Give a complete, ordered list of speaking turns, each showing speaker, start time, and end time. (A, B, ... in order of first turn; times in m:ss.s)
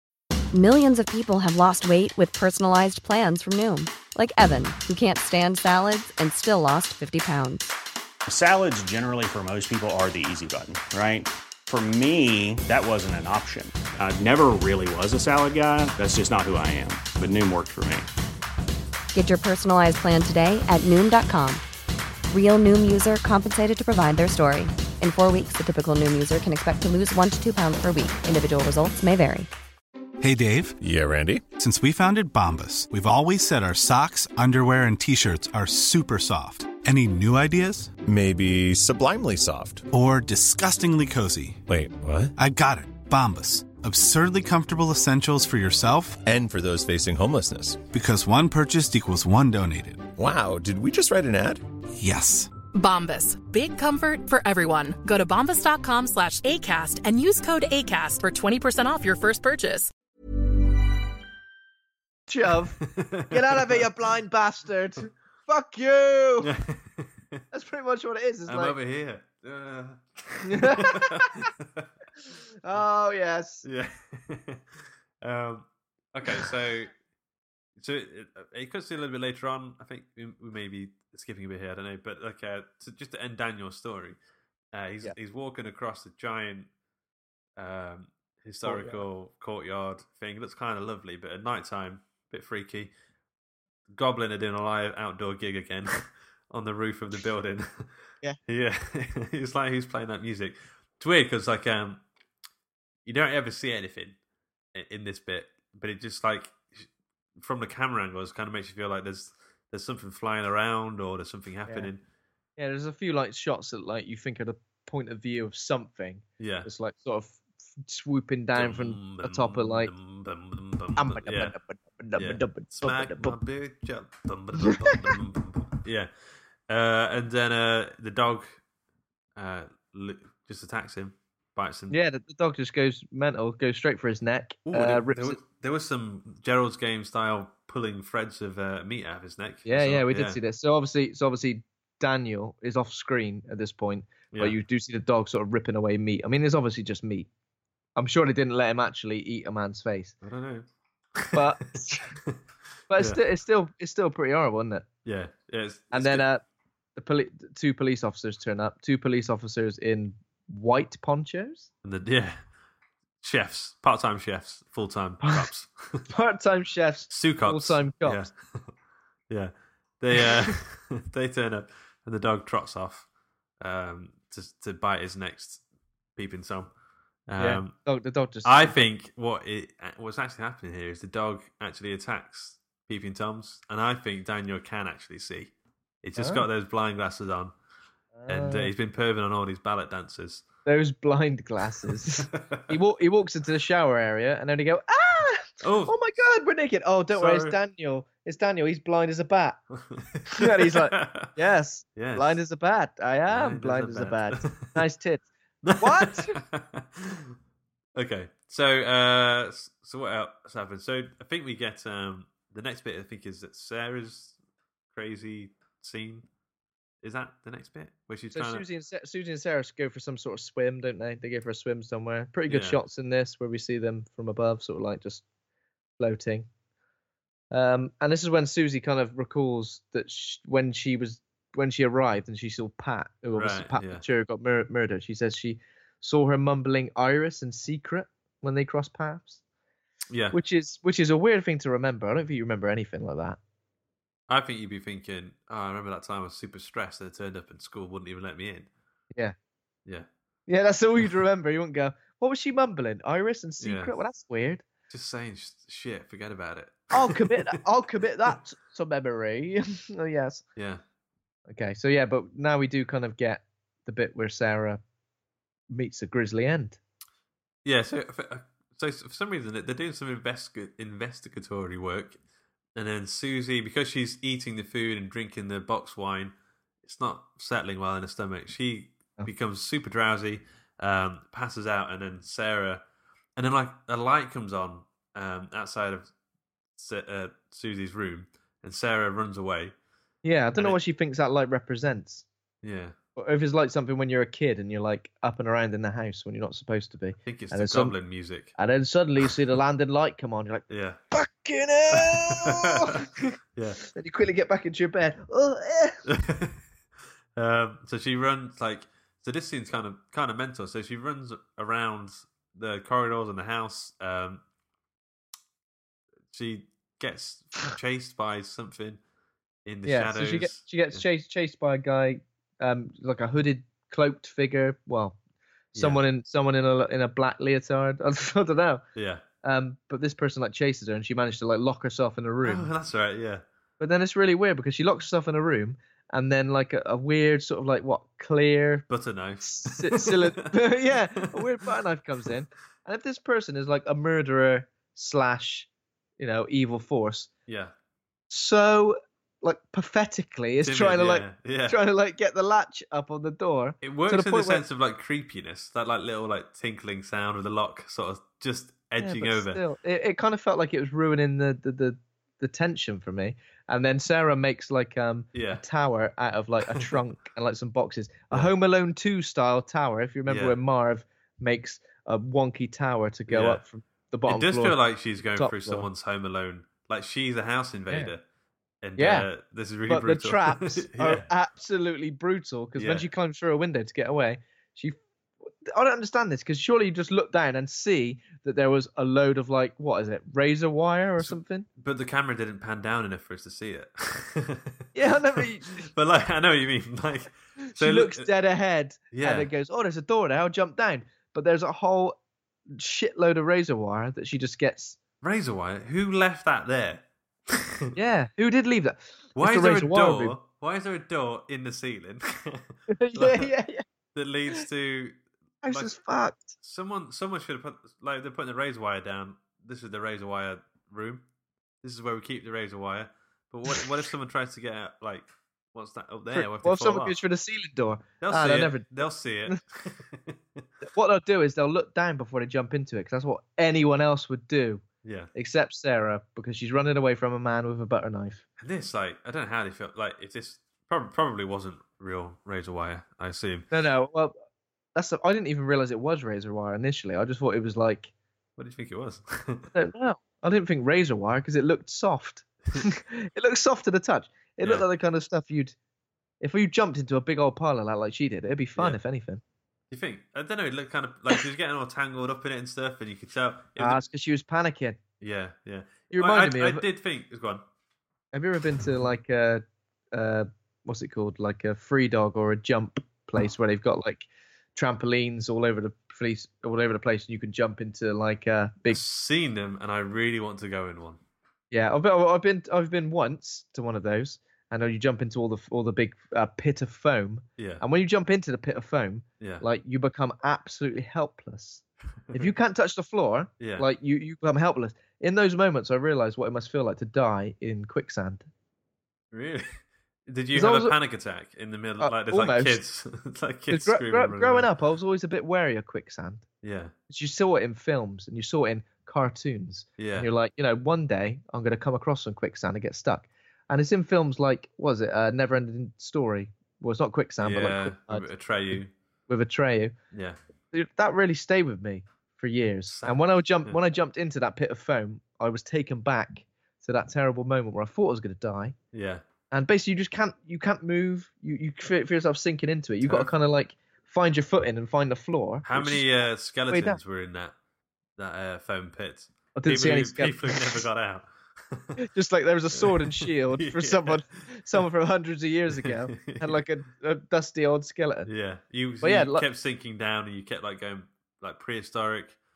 0:00.5-0:07.7 A
0:08.3-0:18.1 B
0:19.1-0:21.6 A
0:22.3-0:29.5 A
0:30.2-0:30.8 C
0:30.8-0:31.4 D
0:31.6-0:37.9 C
0:38.0-0:39.9 D
0:39.9-0:41.6 C
0:41.7-0:42.3 D
0:42.4-0:46.2 C
0:46.2-0:47.9 D
0:47.9-0:50.1 C
0:50.2-0:51.6 D
0:52.0-0:52.5 C
0:52.7-0:59.9 E
1:02.3-1:06.5 F
1:02.8-1:03.8 G
1:06.4-1:07.4 G
1:07.5-1:08.8 F
1:08.5-1:11.9 G
1:10.5-1:11.4 F
1:12.6-1:13.6 F
1:13.6-1:16.9 G
1:17.8-1:24.2 G
1:24.7-1:26.7 G
1:27.6-1:32.9 G
1:28.6-1:29.0 F
1:33.9-1:37.9 G
1:38.5-1:42.0 G
1:43.0-1:44.2 G
1:44.7-1:52.0 G
1:52.6-1:59.9 F
1:56.4-1:56.7 G
1:58.5-2:01.6 G
2:01.0-2:03.4 F
2:02.2-2:06.1 G
2:04.6-2:05.0 F
2:06.7-2:08.6 G
2:09.4-2:12.0 G
2:11.9-2:15.4 F
2:14.7-2:20.4 G
2:19.7-2:27.3 F
2:28.0-2:30.2 F
2:30.2-2:31.6 G
2:31.3-2:32.1 F
2:32.9-2:34.9 F
2:33.0-2:33.2 G
2:35.0-2:36.2 G
2:35.9-2:36.4 F
2:37.0-2:41.7 F
2:41.8-2:42.4 G
2:43.2-2:46.1 G
2:46.1-2:48.2 F
2:47.1-2:48.7 G
2:49.3-2:53.0 G
2:53.6-2:55.6 G
2:56.2-2:56.7 G
2:57.3-2:57.7 G
2:57.4-2:58.8 F
2:58.4-3:05.5 G
3:06.0-3:07.5 G
3:06.2-3:06.4 F
3:08.2-3:08.7 F
3:08.3-3:10.4 G
3:10.6-3:19.6 F
3:12.1-3:12.8 G
3:15.6-3:16.1 G
3:17.1-3:17.6 G
3:19.9-3:21.3 G
3:20.3-3:26.4 F
3:22.0-3:22.4 G
3:23.3-3:24.8 G
3:25.6-3:27.4 G
3:28.0-3:34.4 G
3:34.9-3:36.3 G
3:37.0-3:38.6 G
3:38.3-3:45.2 F
3:42.5-3:42.8 G
3:46.0-3:46.5 F
3:47.5-3:59.4 F
3:53.3-3:54.0 G
4:00.1-4:00.4 G
4:00.3-4:03.4 F
4:04.3-4:08.7 G
4:10.5-4:14.6 F
4:13.6-4:13.9 G
4:14.9-4:17.6 G
4:16.9-4:20.4 F
4:20.6-4:20.8 G
4:21.5-4:24.8 F
4:25.7-4:26.8 F
4:27.6-4:32.2 G
4:32.7-4:42.8 G
4:43.4-4:46.1 G
4:46.8-4:49.7 G
4:50.2-4:52.3 F
4:52.6-4:53.0 G
4:53.2-4:58.0 F
4:57.3-4:58.6 G
4:58.6-5:03.1 F
5:00.7-5:01.0 G
5:01.9-5:03.8 G
5:03.8-5:06.0 F
5:06.0-5:06.6 G
5:07.4-5:14.4 G
5:16.3-5:19.0 G
5:19.6-5:21.0 G
5:19.8-5:25.2 F
5:25.7-5:28.8 F
5:25.7-5:26.0 G
5:29.0-5:29.2 G
5:29.4-5:32.7 F
5:32.4-5:33.4 G
5:33.8-5:38.9 F
5:38.9-5:40.5 G
5:39.4-5:47.3 F
5:47.5-5:47.7 G
5:48.3-5:54.6 F
5:50.6-5:51.8 G
5:53.8-5:59.6 G
5:59.0-6:15.9 F
6:05.3-6:05.6 G
6:10.3-6:10.6 G
6:13.3-6:13.6 G
6:14.3-6:18.2 G
6:18.8-6:21.3 G
6:19.0-6:19.3 F
6:19.9-6:25.0 F
6:22.8-6:23.1 G
6:25.6-6:31.7 F
6:31.2-6:38.3 G
6:34.9-6:35.9 F
6:37.7-6:42.2 F
6:39.1-6:39.5 G
6:42.7-6:45.0 F
6:45.2-6:48.0 G
6:48.0-6:50.4 F
6:49.4-6:53.5 G
6:52.9-6:53.8 F
6:54.1-6:55.9 G
6:55.6-6:56.6 F
6:56.6-7:01.2 G
7:01.8-7:07.2 G
7:06.3-7:08.9 F
7:08.2-7:10.7 G
7:10.8-7:14.8 F
7:15.0-7:15.3 G
7:15.4-7:18.4 F
7:18.6-7:23.7 G
7:23.7-7:24.4 F
7:25.0-7:28.1 F
7:28.6-7:29.7 G
7:29.7-7:35.7 F
7:34.6-7:34.9 G
7:36.4-7:39.4 F
7:39.9-7:44.0 G
7:43.8-7:45.0 F
7:45.2-7:47.6 G
7:46.1-7:46.8 F
7:48.3-7:59.0 F
7:58.9-8:01.2 G
8:01.7-8:18.5 F
8:07.6-8:07.8 G
8:12.3-8:12.5 G
8:13.6-8:13.9 G
8:19.3-8:24.7 G
8:20.5-8:21.0 F
8:22.0-8:22.8 F
8:23.7-8:26.4 F
8:26.6-8:26.9 G
8:27.1-8:38.3 F
8:30.0-8:30.3 G
8:37.4-8:38.9 G
8:39.3-8:39.9 F
8:40.1-8:40.4 G
8:40.7-8:48.7 F
8:42.9-8:43.8 G
8:48.9-8:49.2 G
8:49.5-8:56.0 F
8:53.0-8:53.3 G
8:55.6-8:57.6 G
8:56.7-8:57.0 F
8:58.2-9:02.0 G
8:59.6-9:00.7 F
9:02.0-9:08.3 F
9:02.7-9:04.8 G
9:05.7-9:06.6 G
9:08.3-9:12.4 G
9:09.0-9:09.4 F